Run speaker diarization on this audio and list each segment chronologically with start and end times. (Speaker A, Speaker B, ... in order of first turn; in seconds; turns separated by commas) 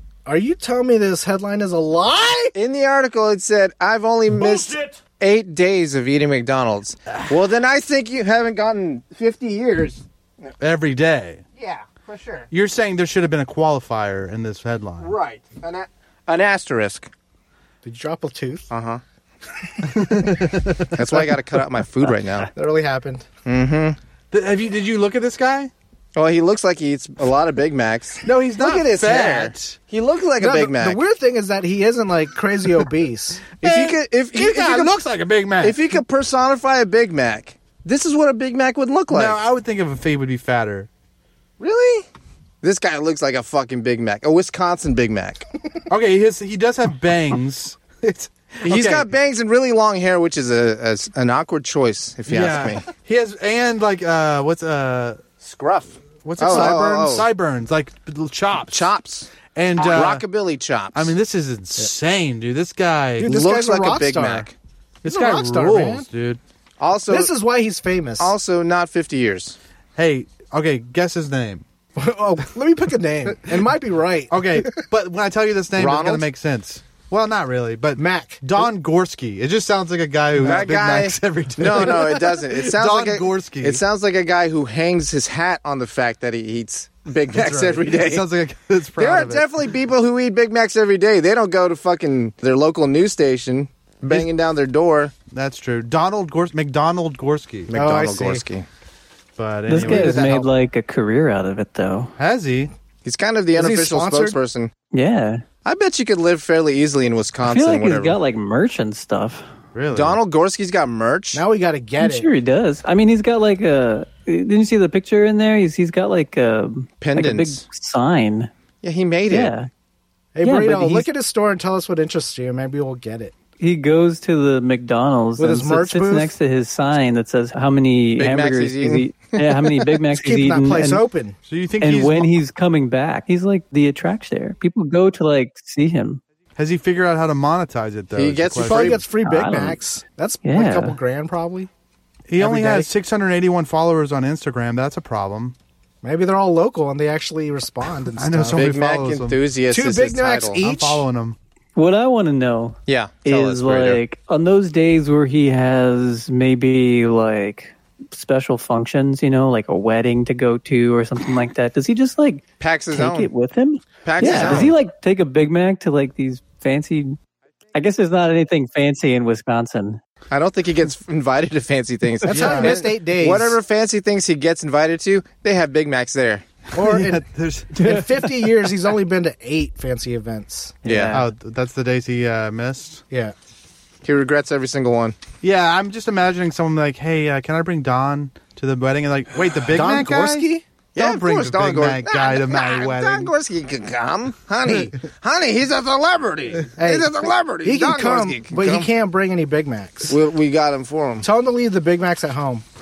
Speaker A: 0.3-2.5, Speaker B: 2.5-10.1, Speaker C: 10.6-11.4, Speaker B: 11.6-12.5, Speaker C: 12.5-15.1, Speaker B: 15.0-17.1, Speaker A: 17.8-18.7, Speaker B: 18.7-19.0, Speaker C: 19.8-21.2, Speaker B: 20.9-22.5, Speaker A: 22.6-23.2, Speaker B: 23.4-24.0, Speaker C: 24.3-25.7, Speaker B: 26.1-31.0, Speaker C: 28.2-29.8, Speaker A: 30.4-33.7, Speaker C: 33.6-35.8, Speaker B: 33.6-35.0, Speaker B: 35.6-39.4, Speaker C: 39.1-40.9, Speaker B: 41.6-42.1, Speaker B: 42.6-45.5, Speaker C: 45.9-49.1, Speaker B: 48.6-52.8, Speaker C: 52.3-55.3, Speaker B: 55.4-57.3, Speaker C: 56.2-58.9, Speaker A: 56.4-57.1, Speaker B: 58.7-61.1, Speaker C: 59.5-60.2, Speaker C: 60.9-63.3, Speaker A: 63.2-64.5, Speaker B: 63.2-64.5, Speaker C: 65.0-66.4, Speaker A: 65.0-66.1, Speaker B: 66.8-67.3, Speaker A: 67.1-68.3, Speaker B: 68.2-69.6, Speaker C: 70.0-71.6, Speaker A: 72.0-74.7, Speaker C: 74.3-83.8, Speaker B: 75.8-76.3, Speaker A: 78.0-78.4, Speaker B: 80.4-88.3, Speaker C: 87.3-89.6, Speaker B: 89.0-95.1, Speaker C: 95.3-97.7, Speaker B: 97.7-98.7, Speaker A: 97.7-98.4, Speaker C: 99.4-100.4, Speaker D: 99.7-102.1, Speaker A: 99.8-100.4, Speaker C: 102.2-102.7, Speaker B: 103.0-104.7, Speaker A: 103.5-104.4, Speaker D: 104.9-105.4, Speaker B: 105.7-108.2, Speaker D: 107.4-109.5, Speaker C: 109.8-110.2, Speaker B: 109.9-111.4, Speaker A: 111.3-112.3, Speaker D: 112.0-118.5, Speaker B: 117.0-117.6, Speaker B: 118.8-119.5, Speaker D: 119.3-119.7, Speaker A: 120.3-123.3, Speaker D: 120.4-121.1, Speaker D: 123.6-131.0, Speaker A: 125.4-126.3, Speaker B: 128.2-129.8, Speaker A: 130.2-131.4, Speaker C: 131.5-132.4, Speaker D: 131.8-136.2, Speaker C: 136.6-139.0, Speaker B: 138.1-139.0, Speaker A: 138.6-141.7, Speaker D: 139.2-139.8, Speaker D: 140.4-141.0, Speaker C: 142.3-145.6, Speaker A: 142.4-142.9, Speaker A: 146.0-148.7, Speaker C: 148.2-149.4, Speaker B: 148.5-150.6, Speaker A: 149.7-151.1, Speaker C: 150.6-151.4, Speaker D: 151.8-167.2, Speaker B: 152.9-154.0, Speaker B: 162.6-163.3, Speaker B: 164.0-164.8, Speaker C: 164.3-164.7, Speaker D: 167.8-170.0, Speaker B: 170.3-176.4, Speaker A: 172.2-173.6, Speaker C: 172.3-172.8, Speaker A: 176.8-177.2, Speaker C: 176.8-178.2, Speaker A: 177.8-181.2, Speaker B: 180.8-181.2, Speaker D: 180.9-181.2, Speaker C: 181.1-183.0, Speaker B: 184.0-185.2, Speaker C: 185.4-193.3, Speaker A: 189.7-190.6, Speaker B: 190.9-198.9, Speaker A: 196.8-200.2, Speaker B: 200.1-201.3, Speaker A: 201.2-202.6